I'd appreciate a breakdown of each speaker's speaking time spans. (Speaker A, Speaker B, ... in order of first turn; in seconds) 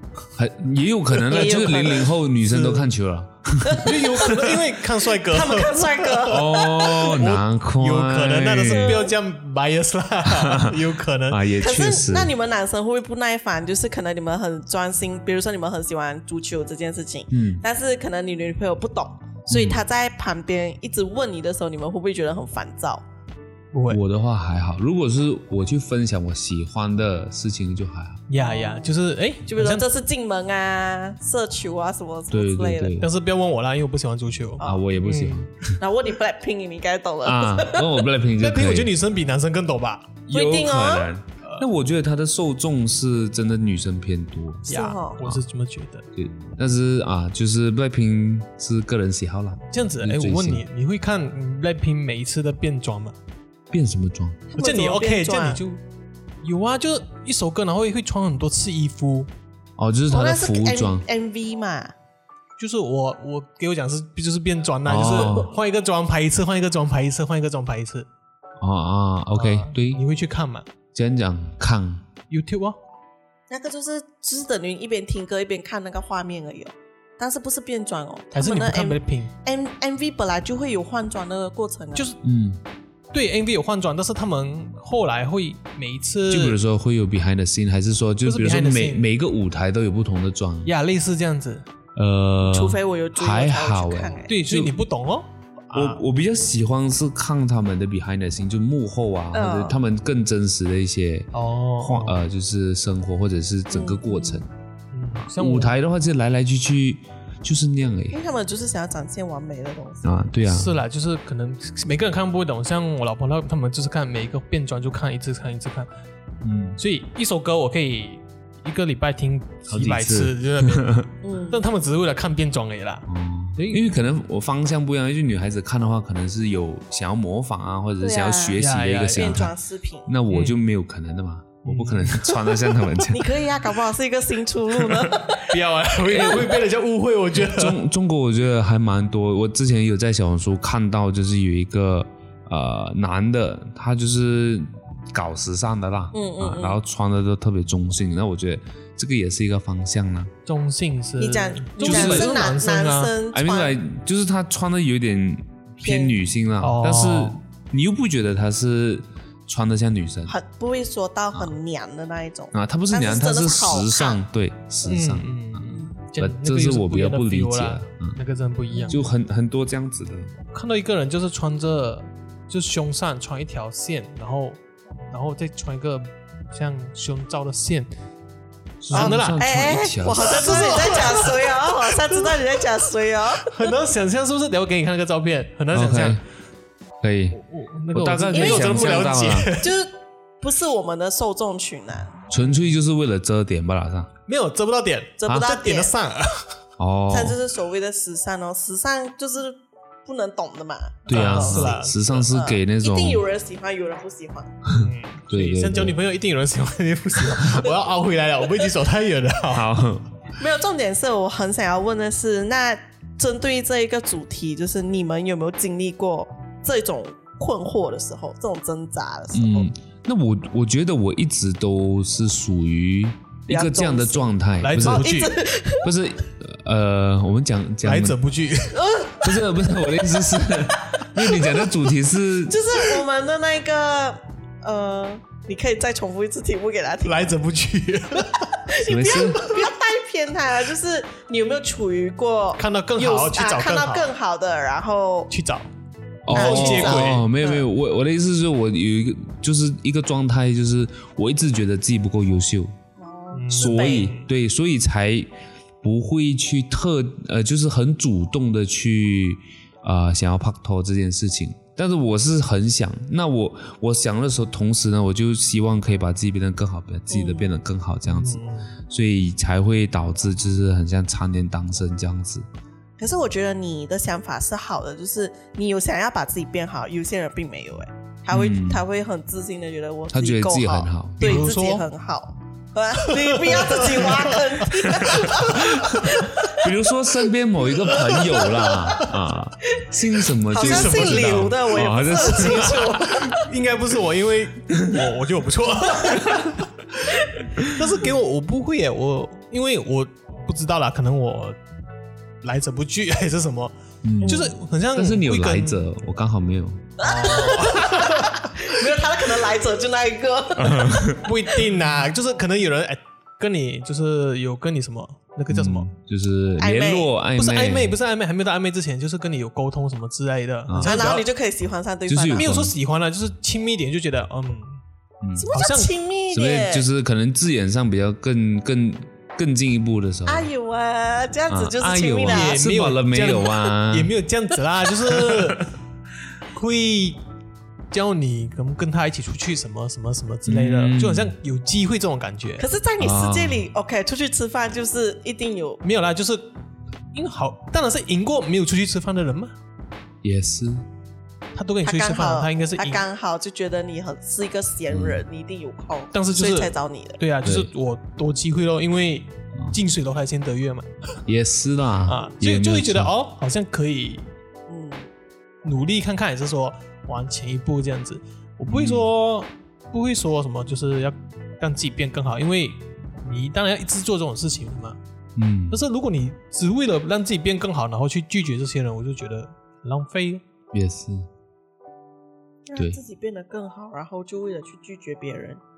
Speaker A: 0.4-4.0, 6.3-9.0, 10.3-10.8, 11.3-12.3, 17.3-17.6, 19.5-19.8, 23.9-28.2, 32.3-33.1, 34.6-35.8, 37.2-38.9, 40.3-45.4, 46.1-50.6, 53.7-54.5, 59.8-61.0, 64.8-65.5, 68.6-70.0, 70.9-72.1, 82.2-82.6, 86.3-90.7, 92.0-94.8, 95.7-104.5, 105.2-108.2, 110.0-110.8, 116.4-116.8, 119.7-121.1, 123.1-129.5, 130.1-133.3, 136.1-136.4, 137.4-150.3, 151.8-152.4, 153.3-160.3, 162.5-168.2, 168.9-170.3, 178.8-180.7, 185.7-186.2, 187.0-187.4, 187.9-189.5, 192.3-194.1, 196.8-197.4, 201.1-203.2, 204.7-206.0, 209.5-210.1, 219.3-225.1, 225.8-228.2, 229.2-232.6, 238.8-239.5, 246.3-252.7, 253.5-255.3, 255.8-272.5, 278.3-278.8, 280.1-281.5, 284.7-293.2, 294.7-295.0, 297.4-297.8, 304.0-304.4, 304.9-306.9, 310.6-311.2, 315.5-318.0, 320.7-321.0, 322.1-322.7, 325.2-325.5, 326.3-330.5, 331.5-334.2, 335.2-335.6, 340.5-341.4, 343.0-343.7, 350.2-350.9, 354.9-355.2, 357.4-357.7, 361.3-363.1, 368.7-369.1, 375.4-375.8, 380.7-381.3
Speaker B: 1.2-2.1, 3.7-7.4, 8.6-9.1, 11.6-23.1, 28.4-28.9, 29.5-32.9, 35.8-38.0, 40.3-41.1, 44.7-45.2, 54.5-55.6, 60.1-61.9, 65.2-65.4, 73.5-82.1, 92.4-94.4, 99.3-99.8, 103.7-104.4, 108.1-110.2, 121.2-121.6, 128.0-130.1, 133.1-135.6, 136.2-136.5, 146.1-146.8, 151.2-153.8, 155.8-156.2, 160.3-164.2, 178.9-183.7, 188.3-192.2, 195.2-195.9, 197.1-204.5, 210.4-219.7, 223.5-224.3, 224.8-225.9, 228.7-229.4, 232.5-237.3, 238.7-245.3, 246.3-247.7, 253.0-254.1, 267.1-267.5, 273.0-286.7, 290.5-293.5, 295.9-296.4, 304.2-304.6, 307.0-311.6, 316.6-317.1, 320.8-322.5, 325.4-326.9, 330.3-332.6, 342.6-345.8, 351.8-357.2, 364.7-365.1, 382.7-385.6
Speaker C: 2.5-2.9, 3.8-6.5, 7.1-11.5, 23.7-24.0, 28.3-29.9, 33.0-35.5, 38.4-40.2, 44.7-46.1, 49.7-53.2, 54.6-55.8, 56.4-59.3, 62.6-68.1, 69.3-70.7, 72.3-72.8, 78.3-79.3, 83.1-86.6, 88.2-89.1, 90.7-91.7, 94.3-96.0, 101.3-102.2, 104.9-105.8, 110.5-115.9, 116.8-123.1, 123.6-124.0, 128.6-129.5, 130.3-130.6, 131.6-132.6, 135.4-137.8, 150.5-153.2, 156.6-157.4, 164.8-169.1, 170.5-177.9, 178.9-179.4, 180.2-182.5, 183.4-186.2, 187.3-189.8, 194.3-196.6, 201.1-202.3, 204.8-209.9, 224.6-225.3, 227.8-228.9, 237.0-238.5, 239.4-239.7, 242.6-244.1, 245.3-245.7, 246.3-247.3, 253.3-254.3, 268.1-268.8, 281.2-281.9, 283.0-285.6, 288.2-289.1, 290.6-301.6, 302.4-305.9, 307.0-308.8, 311.2-315.9, 317.4-321.3, 322.3-324.8, 325.5-325.9, 332.3-335.7, 336.5-337.2, 337.9-342.7, 345.8-346.6, 347.1-349.6, 351.5-353.1, 356.1-361.2, 362.1-364.3, 365.6-375.0, 375.7-380.4